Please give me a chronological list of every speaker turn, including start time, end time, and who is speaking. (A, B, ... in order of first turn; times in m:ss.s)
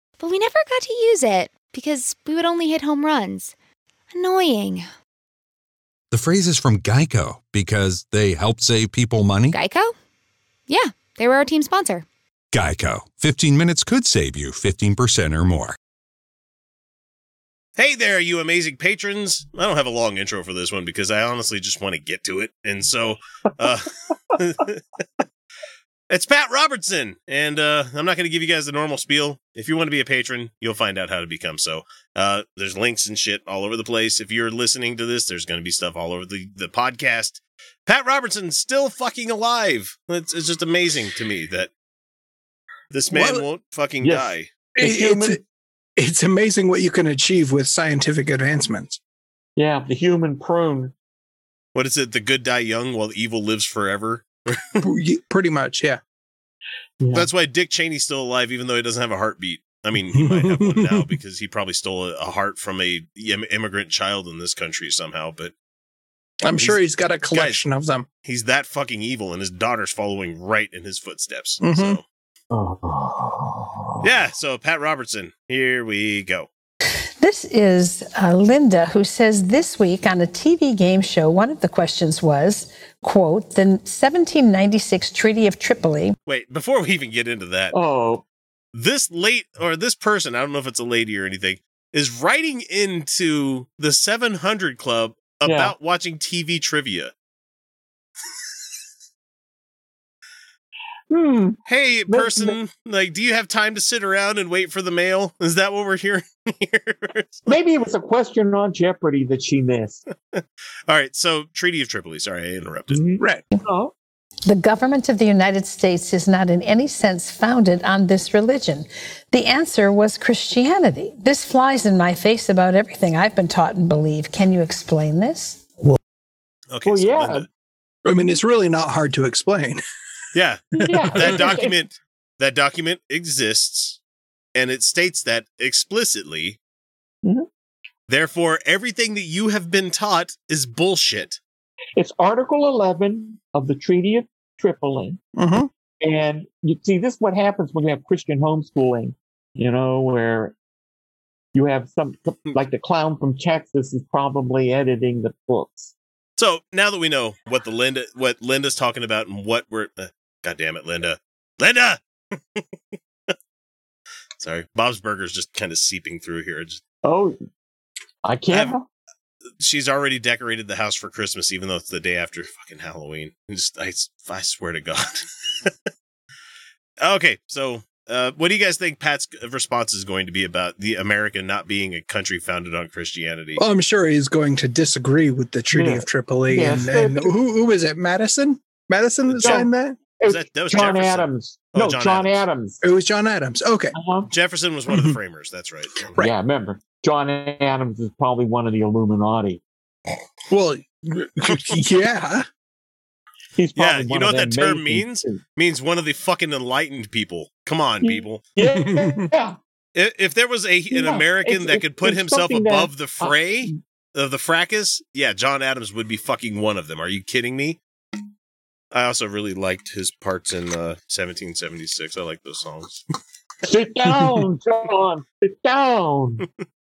0:00.2-0:03.5 A
0:04.1-0:04.9 A
0:06.1-0:09.6 B
0:09.5-0:09.9 A
0:10.7-0:12.0 A
0:12.5-0:15.8 B
0:17.8-0:25.0 C
0:26.1-0:41.7 C
0:42.9-0:44.5 C
0:43.1-0:43.4 D
0:44.0-0:45.4 E
0:44.8-0:45.4 D
0:46.0-0:49.0 D
0:49.6-0:50.9 E
0:51.7-0:54.6 C
0:54.8-0:56.0 D
0:57.0-0:57.3 E
0:57.1-1:05.5 C
1:00.2-1:01.0 D
1:06.4-1:08.0 D
1:06.5-1:07.6 C
1:08.2-1:12.0 C
1:11.6-1:12.0 D
1:12.5-1:14.1 E
1:14.0-1:16.5 C
1:17.2-1:26.1 F
1:26.3-1:27.8 C
1:27.7-1:28.2 E
1:28.7-1:37.1 C
1:35.4-1:35.7 E
1:41.1-1:42.5 E
1:41.7-1:47.5 C
1:47.5-1:50.0 E
1:50.3-1:53.0 C
1:52.9-1:53.9 E
1:54.4-2:05.6 F
2:06.7-2:07.5 C
2:06.8-2:07.4 E
2:08.0-2:09.8 D
2:10.3-2:14.0 C
2:10.8-2:11.3 D
2:10.9-2:11.8 E
2:14.5-2:16.6 C
2:18.1-2:21.4 C
2:22.0-2:25.2 E
2:25.4-2:25.7 D
2:26.0-2:30.5 E
2:31.5-2:35.9 E
2:36.4-2:43.3 C
2:44.4-2:46.8 C
2:47.0-2:47.3 E
2:48.2-2:48.8 E
2:49.6-2:55.7 C
2:57.0-3:03.6 C
3:03.6-3:10.0 D
3:05.7-3:07.3 E
3:09.3-3:09.7 C
3:09.3-3:12.8 E
3:10.2-3:12.4 C
3:12.8-3:13.9 D
3:13.9-3:14.3 E
3:14.3-3:16.2 C
3:16.2-3:19.6 E
3:20.5-3:22.4 D
3:23.6-3:25.4 E
3:23.8-3:28.4 C
3:28.0-3:29.6 E
3:29.9-3:37.8 C
3:30.9-3:33.8 E
3:38.9-3:43.0 C
3:43.6-3:46.4 E